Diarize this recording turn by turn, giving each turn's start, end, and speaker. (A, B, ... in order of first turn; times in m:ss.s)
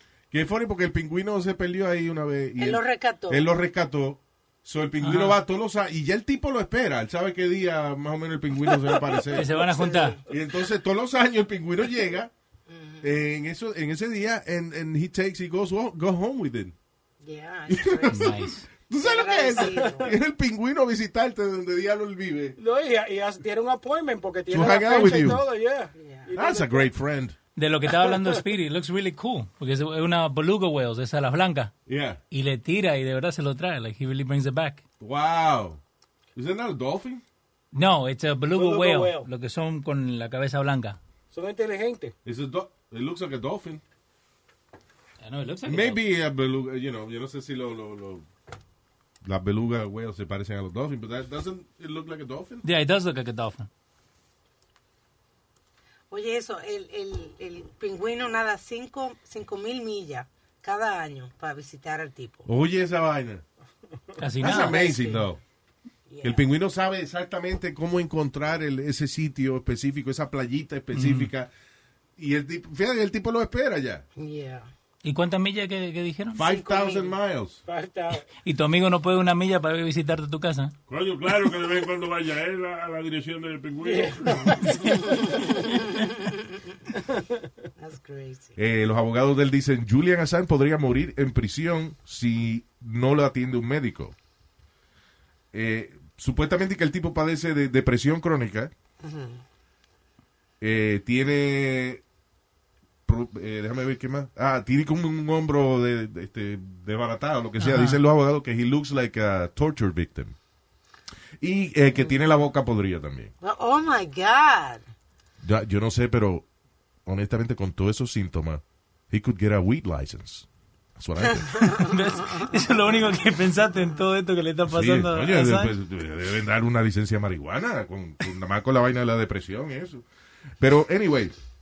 0:00.3-0:09.5 A
0:02.6-0:03.4 B
0:05.0-0:05.4 C
0:09.3-0:10.2 C
0:09.7-0:10.2 B
0:10.3-0:12.3 A
0:12.7-0:13.1 B
0:13.0-0:16.7 A
0:17.2-0:18.3 B
0:17.7-0:22.6 A
0:18.1-0:18.6 C
0:19.0-0:20.1 B
0:22.6-0:26.9 D
0:24.5-0:25.4 A
0:25.9-0:26.3 B
0:26.3-0:27.4 A
0:27.6-0:31.7 C
0:28.0-0:28.4 D
0:31.9-0:32.2 A
0:32.3-0:34.8 C
0:35.0-0:35.8 A
0:36.3-0:37.2 A
0:37.7-0:41.0 C
0:38.5-0:39.3 D
0:41.3-0:42.1 D
0:42.2-0:43.8 A
0:45.2-0:46.0 C
0:45.6-0:48.2 A
0:49.2-0:52.6 A
0:52.6-0:53.7 C
0:56.1-1:02.4 B
1:02.4-1:03.4 A
1:04.2-1:04.8 C
1:04.4-1:05.4 A
1:04.4-1:05.2 B
1:06.1-1:06.5 B
1:06.2-1:11.5 A
1:10.9-1:11.3 C
1:12.2-1:14.0 A
1:14.2-1:14.7 B
1:15.0-1:16.4 C
1:16.3-1:17.6 A
1:16.4-1:17.1 B
1:17.6-1:18.2 D
1:18.4-1:20.7 C
1:20.9-1:24.8 E
1:23.8-1:24.6 D
1:25.2-1:26.3 B
1:27.8-1:28.5 B
1:28.6-1:34.1 A
1:35.5-1:38.7 A
1:39.0-1:39.4 B
1:40.6-1:42.0 A
1:43.0-1:50.3 A
1:47.6-1:48.0 C
1:51.4-1:53.3 A
1:53.4-1:54.8 B
1:55.4-1:56.4 A
1:57.0-2:01.7 A
2:01.3-2:02.5 B
2:01.7-2:05.7 C
2:04.7-2:10.0 A
2:10.6-2:11.3 A